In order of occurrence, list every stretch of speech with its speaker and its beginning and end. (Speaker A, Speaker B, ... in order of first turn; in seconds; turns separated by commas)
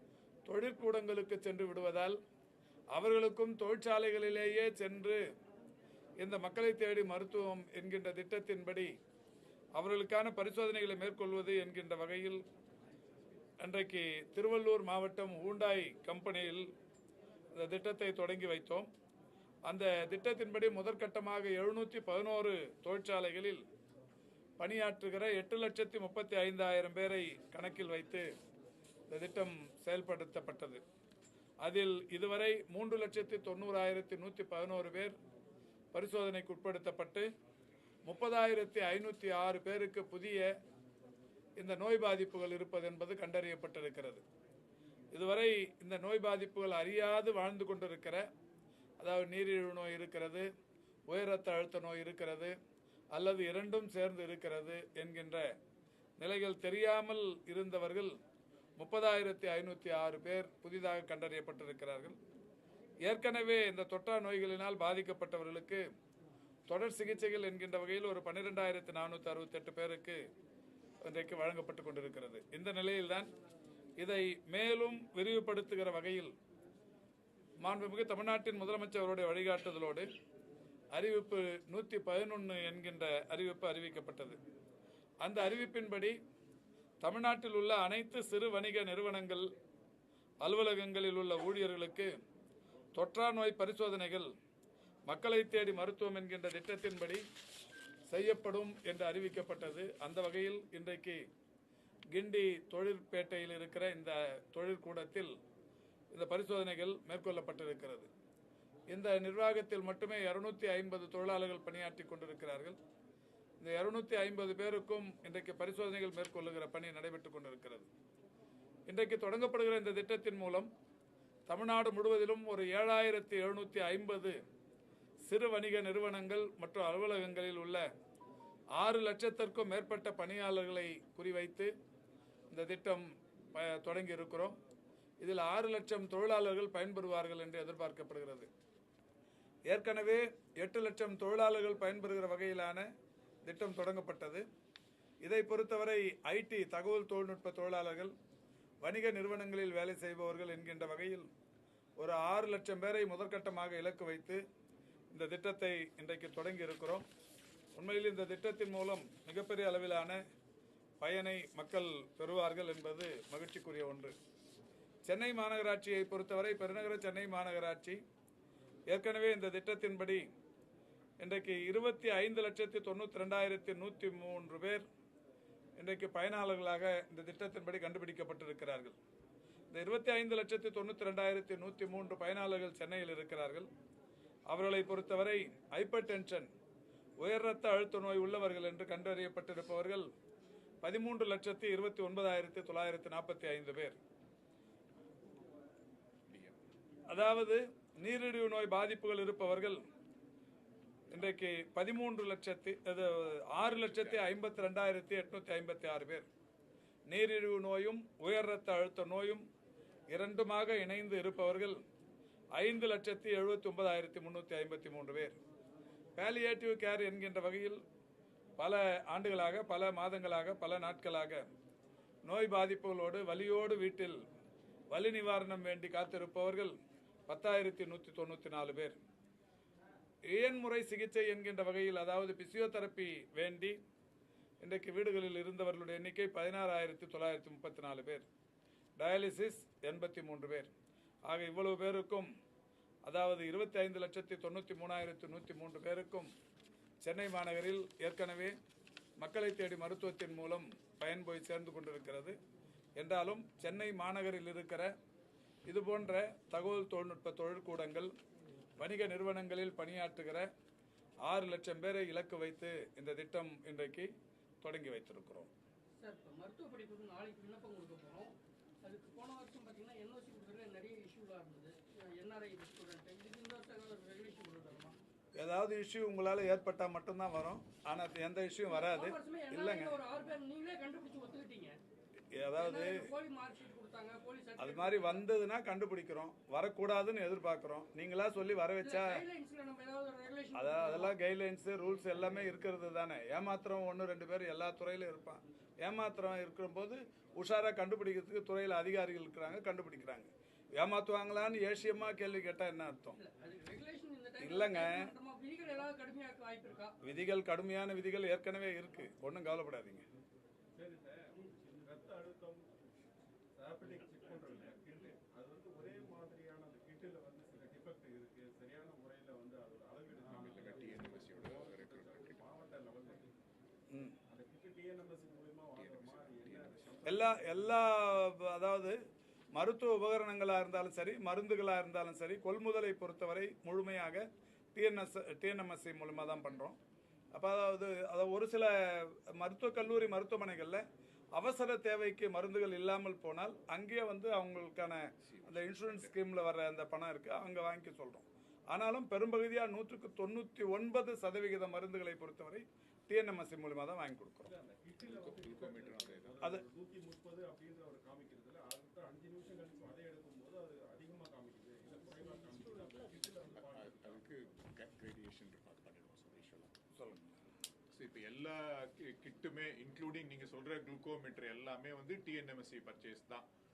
Speaker A: 0.5-2.2, Speaker A: 2.9-5.2, Speaker A: 6.2-8.9, Speaker A: 9.8-12.4, Speaker A: 13.6-16.7, Speaker A: 17.5-18.9, Speaker A: 19.7-23.6, Speaker A: 24.6-28.3, Speaker A: 29.1-30.8, Speaker A: 31.6-35.2, Speaker A: 35.9-37.3, Speaker A: 38.1-40.5, Speaker A: 41.6-44.2, Speaker A: 45.1-48.3, Speaker A: 49.0-50.5, Speaker A: 51.1-52.5, Speaker A: 53.1-55.5, Speaker A: 56.2-58.1, Speaker A: 58.8-62.2, Speaker A: 63.0-65.8, Speaker A: 66.7-70.2, Speaker A: 71.0-73.3, Speaker A: 74.0-76.3, Speaker A: 77.6-80.1, Speaker A: 80.9-84.4, Speaker A: 85.2-86.2, Speaker A: 87.0-89.5, Speaker A: 90.4-92.1, Speaker A: 93.0-94.3, Speaker A: 95.1-97.2, Speaker A: 98.1-101.2, Speaker A: 102.1-105.3, Speaker A: 106.1-108.1, Speaker A: 108.9-112.8, Speaker A: 113.6-117.9, Speaker A: 118.9-120.7, Speaker A: 121.5-124.4, Speaker A: 125.3-127.8, Speaker A: 128.8-131.7, Speaker A: 132.5-134.6, Speaker A: 135.2-138.5, Speaker A: 139.7-142.9, Speaker A: 143.4-144.4, Speaker A: 145.2-148.1, Speaker A: 148.8-151.3, Speaker A: 152.0-154.4, Speaker A: 155.1-157.1, Speaker A: 157.8-160.2, Speaker A: 161.0-164.1, Speaker A: 165.1-168.0, Speaker A: 168.9-170.2, Speaker A: 171.2-174.8, Speaker A: 175.8-178.9, Speaker A: 179.7-183.7, Speaker A: 184.5-186.5, Speaker A: 187.2-190.1, Speaker A: 190.8-194.0, Speaker B: 196.3-196.6, Speaker A: 197.1-199.8, Speaker A: 201.1-206.2, Speaker B: 203.6-204.4, Speaker A: 207.1-209.4, Speaker A: 210.1-211.8, Speaker A: 212.6-215.4, Speaker A: 216.2-217.8, Speaker A: 218.6-221.4, Speaker A: 222.2-224.2, Speaker A: 224.9-226.7, Speaker A: 227.3-229.0, Speaker A: 230.3-233.8, Speaker A: 234.6-238.2, Speaker A: 239.0-240.7, Speaker A: 241.3-242.3, Speaker A: 243.1-246.3, Speaker A: 247.0-248.6, Speaker A: 249.2-252.4, Speaker A: 253.0-254.9, Speaker A: 255.7-258.1, Speaker A: 258.8-260.5, Speaker A: 261.3-264.1, Speaker A: 264.6-265.5, Speaker C: 266.0-275.0, Speaker A: 275.4-280.0, Speaker C: 278.6-281.8, Speaker A: 282.3-283.0, Speaker C: 282.6-285.2, Speaker A: 284.6-289.2, Speaker C: 288.8-291.1, Speaker A: 290.5-303.2, Speaker C: 303.2-306.9, Speaker A: 304.4-305.1, Speaker A: 307.0-310.1, Speaker D: 310.8-312.7, Speaker D: 313.6-323.3, Speaker B: 320.2-322.5, Speaker D: 324.3-327.4, Speaker B: 325.8-327.1, Speaker A: 327.1-329.0, Speaker A: 329.6-336.8, Speaker A: 337.3-340.8, Speaker A: 341.4-354.5, Speaker B: 345.2-346.1, Speaker D: 354.4-364.2, Speaker B: 355.0-356.4, Speaker B: 363.6-366.7, Speaker A: 367.0-367.4, Speaker B: 367.9-373.5